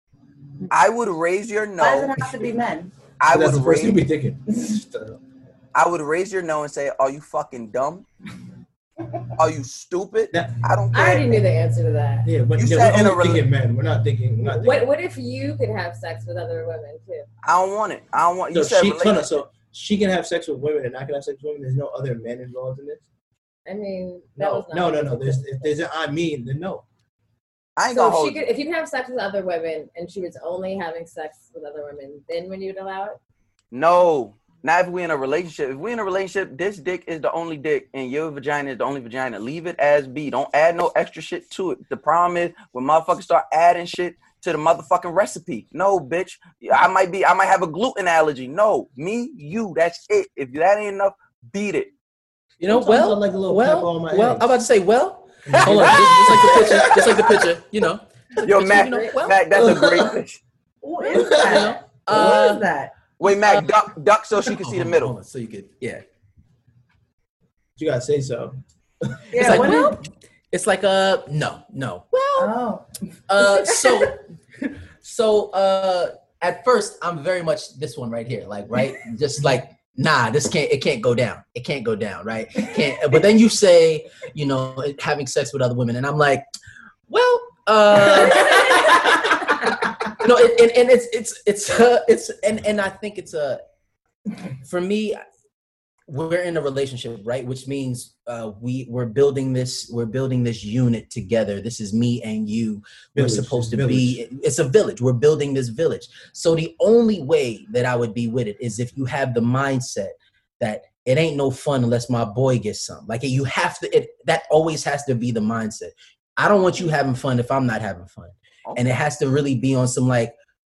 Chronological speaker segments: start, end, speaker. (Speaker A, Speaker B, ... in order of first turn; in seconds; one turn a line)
Speaker A: 0.7-2.2
Speaker B: 1.8-2.9
Speaker A: 3.2-4.0
Speaker C: 3.3-5.2
Speaker A: 5.7-8.0
Speaker A: 9.3-11.3
Speaker C: 10.3-11.2
Speaker D: 10.9-12.3
Speaker C: 12.2-14.9
Speaker A: 12.6-13.4
Speaker D: 14.4-17.2
Speaker A: 17.4-19.3
Speaker C: 18.5-23.0
Speaker D: 23.6-25.7
Speaker C: 24.4-26.8
Speaker A: 27.8-28.4
Speaker D: 27.9-33.2
Speaker A: 33.7-51.9
Speaker E: 52.6-59.4
Speaker C: 52.6-54.5
Speaker C: 55.5-57.4
Speaker A: 55.8-56.2
Speaker A: 58.4-60.4
Speaker C: 59.5-60.2
Speaker B: 60.8-62.9
Speaker C: 61.1-61.7
Speaker E: 61.4-62.7
Speaker A: 63.2-65.1
Speaker E: 64.5-66.0
Speaker C: 67.8-68.6
Speaker C: 69.1-69.6
Speaker B: 69.3-70.0
Speaker E: 69.3-72.5
Speaker B: 72.3-72.8
Speaker E: 73.3-74.2
Speaker B: 73.4-74.0
Speaker E: 75.0-86.5
Speaker E: 87.1-93.6
Speaker E: 94.6-95.2
Speaker E: 96.1-120.3
Speaker C: 103.2-104.2
Speaker A: 118.7-119.0